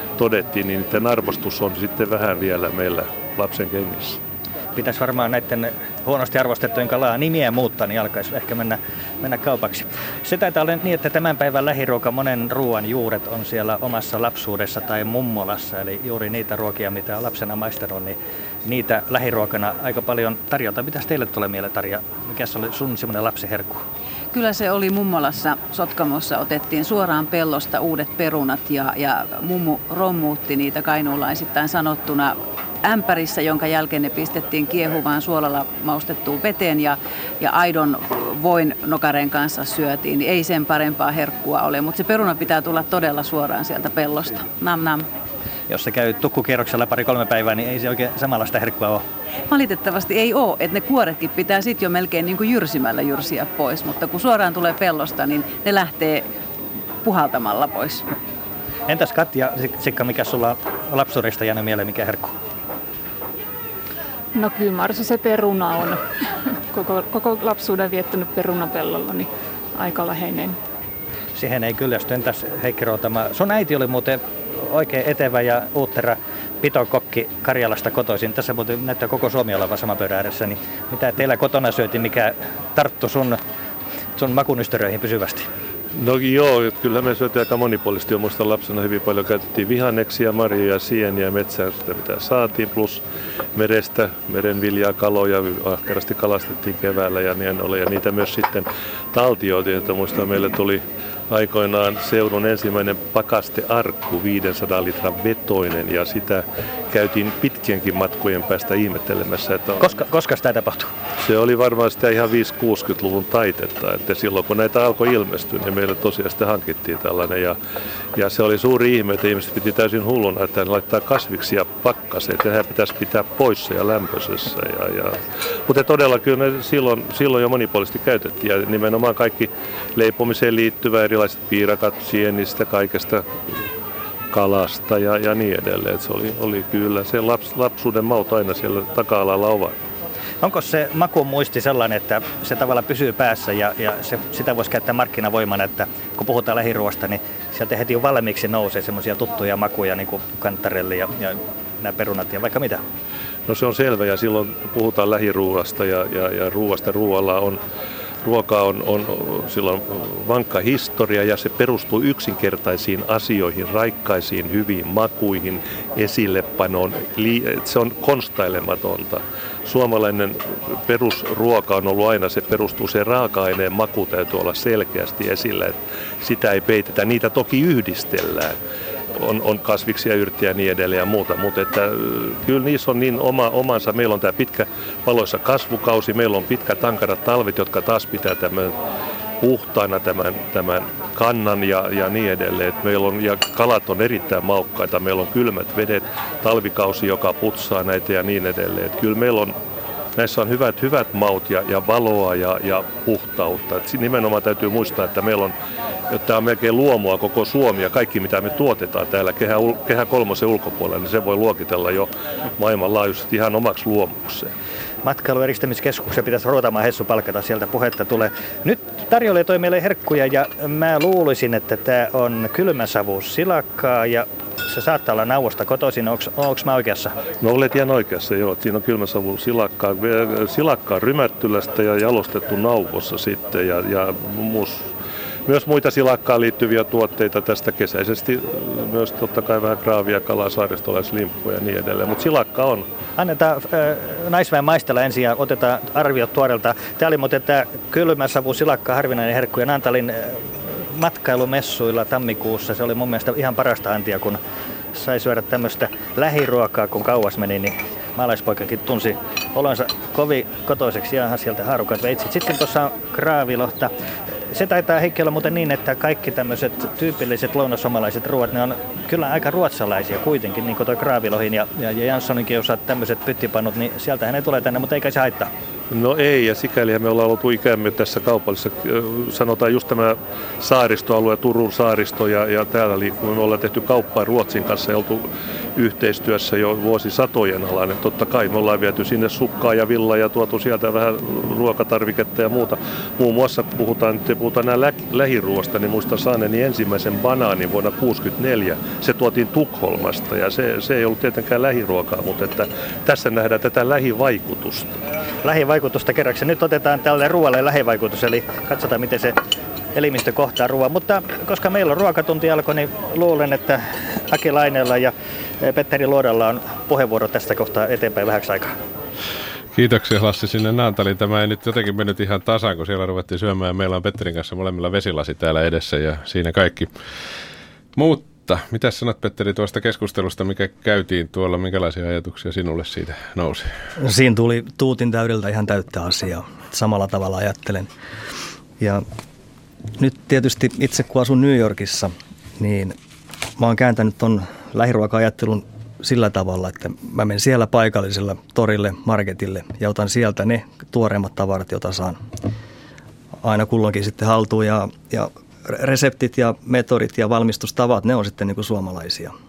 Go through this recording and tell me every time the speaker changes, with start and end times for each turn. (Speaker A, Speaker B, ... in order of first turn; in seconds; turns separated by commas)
Speaker A: 0.2-4.2, Speaker B: 4.8-23.8, Speaker C: 24.3-45.1, Speaker B: 45.7-49.0, Speaker C: 49.5-56.2, Speaker C: 57.0-58.0, Speaker B: 58.9-62.3, Speaker D: 64.3-70.6, Speaker B: 71.3-83.4, Speaker B: 84.2-85.5, Speaker A: 85.9-93.0, Speaker A: 93.5-109.9, Speaker B: 109.8-110.9, Speaker A: 111.2-117.5, Speaker A: 118.2-133.3, Speaker A: 134.3-139.8, Speaker B: 140.4-152.8, Speaker A: 153.5-157.6, Speaker A: 158.2-178.6, Speaker A: 179.1-188.7, Speaker A: 189.4-199.6, Speaker A: 200.2-205.5, Speaker A: 206.1-214.5, Speaker B: 215.0-227.2, Speaker A: 227.4-234.9, Speaker A: 235.4-242.9, Speaker B: 243.2-254.4, Speaker B: 254.9-263.9, Speaker B: 264.5-275.5, Speaker A: 275.9-305.0, Speaker B: 305.4-309.3, Speaker B: 309.9-318.7, Speaker E: 319.7-326.9, Speaker E: 327.9-333.7, Speaker F: 334.0-337.9, Speaker F: 338.8-339.0, Speaker F: 340.0-342.9, Speaker F: 343.6-352.2, Speaker F: 353.4-359.3